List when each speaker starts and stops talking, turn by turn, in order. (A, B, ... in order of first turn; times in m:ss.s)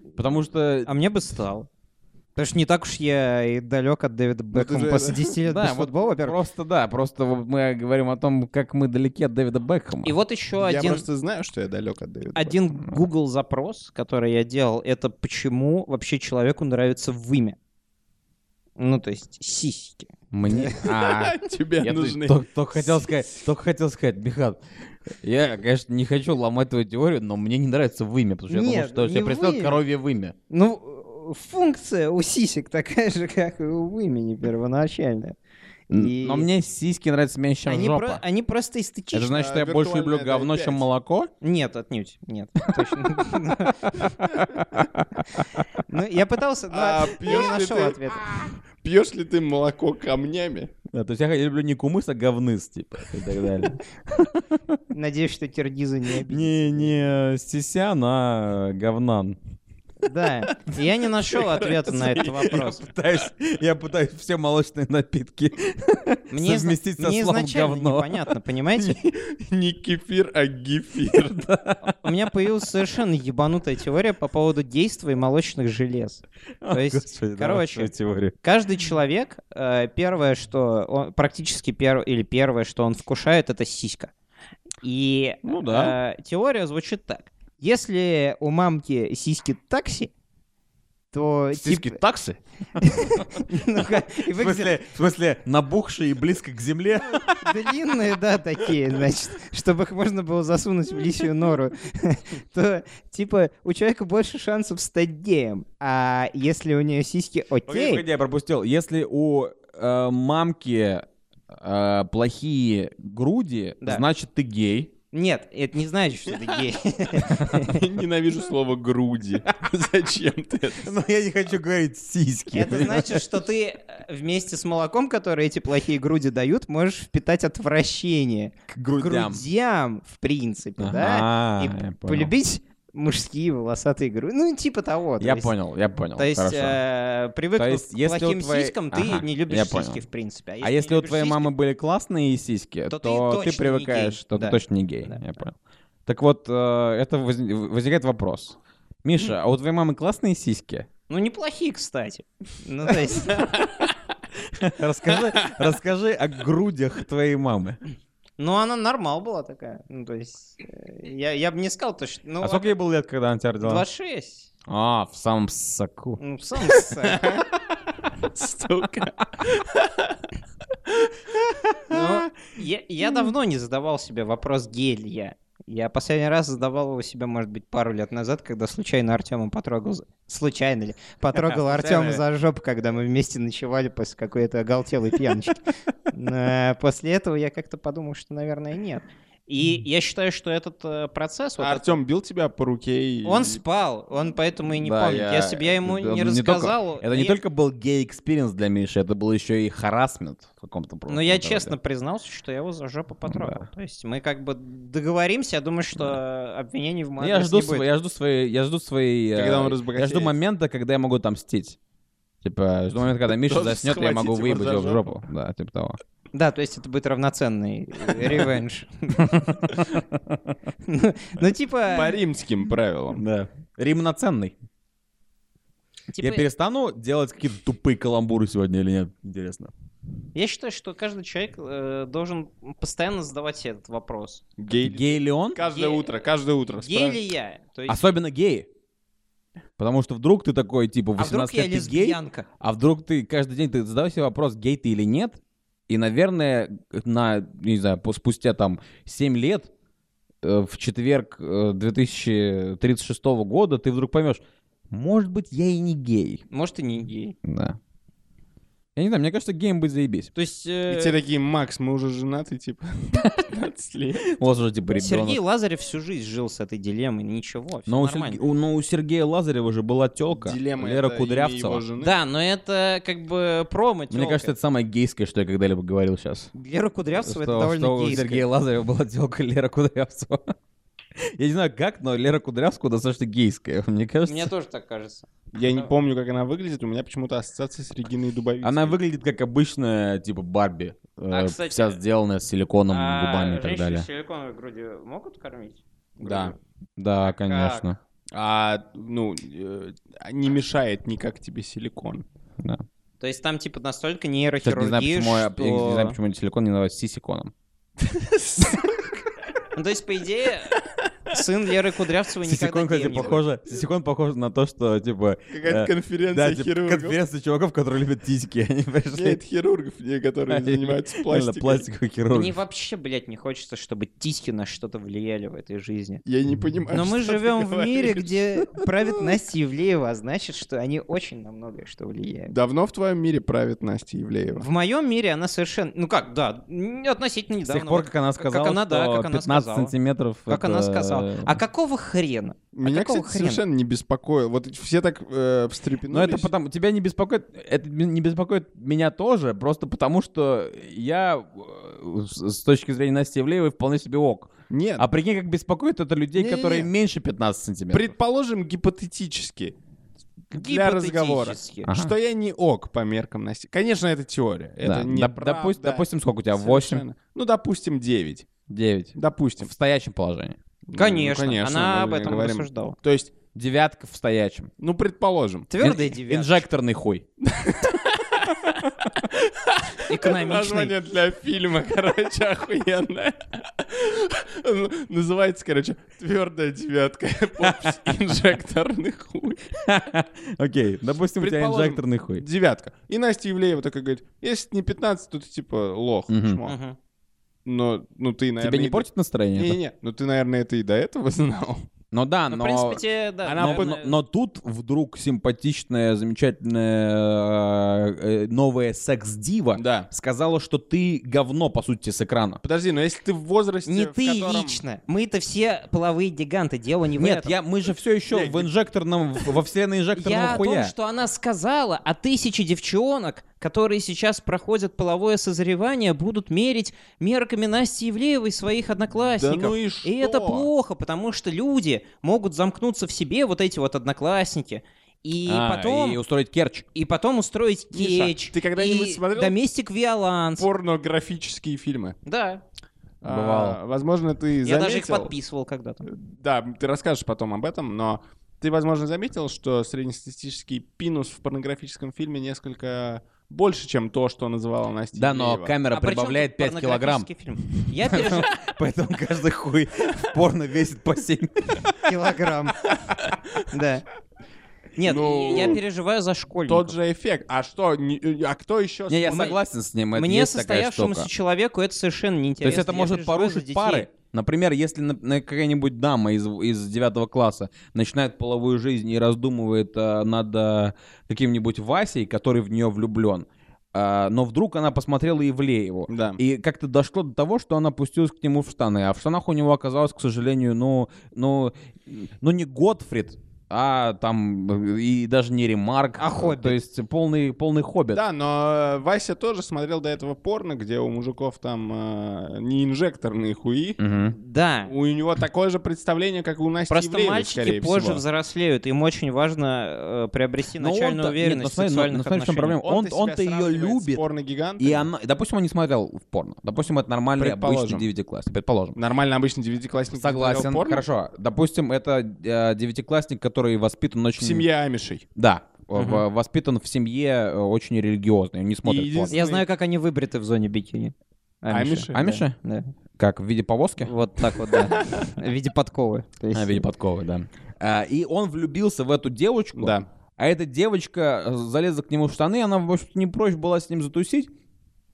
0:00.2-0:00.9 A
0:00.9-0:01.7 B
0:02.4-0:06.4 B
0:04.5-0:05.3 C
0:05.4-0:10.1 A
0:10.0-0:11.0 B
0:10.6-0:12.6 C
0:12.4-0:17.6 B
0:18.8-0:20.8 B
0:20.3-0:24.6 A
0:20.8-0:23.4 C
0:25.2-0:30.4 A
0:28.5-0:29.8 B
0:30.5-0:35.4 B
0:35.9-0:36.5 B
0:35.9-0:38.2 A
0:37.7-0:39.4 B
0:39.1-0:41.3 A
0:39.3-0:40.8 C
0:41.4-0:44.2 B
0:44.4-0:44.8 A
0:45.9-0:48.2 B
0:46.7-0:50.7 C
0:50.9-0:54.8 A
0:54.9-0:56.9 B
0:56.2-0:59.4 A
1:00.0-1:02.8 B
1:01.5-1:01.9 C
1:02.0-1:08.3 A
1:06.3-1:09.0 B
1:08.9-1:11.5 C
1:11.1-1:11.9 A
1:12.0-1:24.1 B
1:16.6-1:18.4 A
1:24.8-1:30.1 B
1:25.4-1:26.0 A
1:31.1-1:32.0 B
1:31.5-1:37.6 A
1:32.8-1:34.8 B
1:37.4-1:48.0 B
1:47.7-1:54.9 A
1:55.1-1:57.8 B
1:57.5-2:00.9 C
2:00.8-2:03.3 A
2:02.5-2:15.5 B
2:08.7-2:09.4 A
2:10.8-2:12.3 A
2:15.2-2:16.8 A
2:16.2-2:21.5 B
2:17.6-2:20.0 A
2:20.6-2:30.9 A
2:22.9-2:25.2 B
2:31.1-2:33.7 B
2:34.4-2:37.8 A
2:38.4-2:42.7 B
2:42.4-2:43.8 A
2:43.6-2:44.5 B
2:44.7-2:46.2 A
2:46.2-2:47.4 B
2:47.0-2:47.5 C
2:48.3-2:50.2 C
2:51.9-3:12.0 B
3:01.5-3:02.2 C
3:11.6-3:13.6 C
3:13.2-3:17.4 B
3:14.7-3:21.7 A
3:21.1-3:27.9 B
3:23.3-3:23.6 A
3:27.2-3:31.8 A
3:29.4-3:30.4 C
3:32.4-3:36.0 A
3:33.3-3:35.2 C
3:36.3-3:39.6 B
3:39.2-3:40.5 A
3:40.8-3:42.2 B
3:41.9-3:43.2 C
3:43.2-3:44.6 A
3:46.1-3:46.5 B
3:46.2-3:49.7 A
3:50.4-3:54.4 B
3:54.6-3:57.2 C
3:54.8-3:55.6 A
3:55.6-3:56.2 B
3:56.8-3:58.0 B
3:57.9-3:58.7 A
3:59.8-4:09.7 A
4:01.2-4:02.5 B
4:10.4-4:16.4 A
4:16.5-4:17.4 B
4:17.4-4:17.8 A
4:19.0-4:20.3 A
4:20.4-4:21.2 B
4:20.9-4:24.3 C
4:24.2-4:25.4 A
4:25.0-4:28.4 B
4:27.9-4:31.8 A
4:30.3-4:32.2 C
4:32.0-4:34.5 B
4:34.1-4:36.5 A
4:36.5-4:38.4 B
4:37.2-4:40.5 A
4:41.4-4:44.5 A
4:44.3-4:45.9 B
4:45.6-4:49.0 C
4:48.6-4:54.1 A
4:51.3-4:52.0 B
4:52.9-4:56.5 B
4:56.2-4:56.5 C
4:56.2-4:58.0 A
4:57.3-4:57.9 B
4:58.3-5:02.2 C
5:03.2-5:06.2 B
5:04.6-5:07.5 A
5:08.0-5:09.1 C
5:09.7-5:10.8 B
5:11.3-5:13.4 B
5:12.4-5:19.4 A
5:15.5-5:17.2 C
5:19.1-5:21.9 C
5:20.5-5:22.6 A
5:22.3-5:26.2 B
5:26.2-5:28.8 C
5:26.9-5:32.5 B
5:32.5-5:34.7 C
5:34.6-5:39.9 B
5:37.7-5:41.5 A
5:40.5-5:43.6 B
5:42.7-5:46.5 C
5:46.1-5:58.1 A
5:54.7-5:55.1 C
5:56.4-5:56.9 C
5:57.9-5:59.8 C
6:00.5-6:01.9 B
6:00.5-6:08.5 C
6:01.9-6:02.1 A
6:04.8-6:07.0 A
6:08.7-6:10.6 A
6:09.2-6:09.7 C
6:10.9-6:13.3 C
6:11.0-6:13.0 B
6:13.5-6:14.7 A
6:14.8-6:15.7 C
6:15.7-6:16.6 B
6:15.8-6:17.2 A
6:17.4-6:29.7 C
6:20.1-6:20.9 B
6:27.6-6:28.2 A
6:29.8-6:32.4 A
6:31.4-6:36.8 C
6:36.3-6:36.6 A
6:36.6-6:37.0 B
6:37.7-6:41.9 C
6:38.6-6:39.8 A
6:42.1-6:43.0 A
6:42.5-6:44.1 B
6:43.5-6:44.0 C
6:43.6-6:52.6 A
6:49.8-6:50.1 C
6:52.6-6:54.8 C
6:53.9-6:57.5 B
6:57.2-7:00.9 A
6:58.3-6:58.7 C
7:00.2-7:16.2 B
7:09.3-7:10.7 C
7:15.5-7:16.9 A
7:16.9-7:20.7 B
7:17.9-7:19.6 C
7:20.6-7:22.2 C
7:22.3-7:22.6 B
7:23.2-7:25.3 C
7:23.2-7:23.8 A
7:24.6-7:26.1 B
7:26.1-7:35.8 C
7:35.1-7:37.3 A
7:35.9-7:38.5 B
7:38.1-7:41.9 A
7:42.0-7:42.9 B
7:43.7-7:44.0 B
7:45.0-7:46.9 B
7:45.0-7:45.8 C
7:46.7-7:49.6 C
7:49.1-7:51.3 A
7:49.3-7:49.6 B
7:50.2-7:54.1 B
7:52.6-8:18.2 A
8:06.1-8:06.4 C
8:16.2-8:16.8 B
8:18.1-8:24.0 C
8:24.0-8:24.4 A
8:24.3-8:24.9 B
8:24.9-8:28.2 C
8:26.9-8:32.8 B
8:30.8-8:34.2 A
8:32.8-8:35.1 C
8:34.8-8:39.0 A
8:37.4-8:38.1 C
8:39.0-8:41.0 C
8:40.1-8:44.7 A
8:44.4-8:45.2 C
8:45.4-8:49.3 A
8:46.0-8:46.2 B
8:48.8-8:49.6 C
8:49.3-8:52.9 B
8:51.7-8:52.3 C
8:52.1-8:52.6 A
8:53.2-8:54.1 A
8:54.0-8:56.8 B
8:56.5-9:04.5 A
8:59.8-9:00.1 C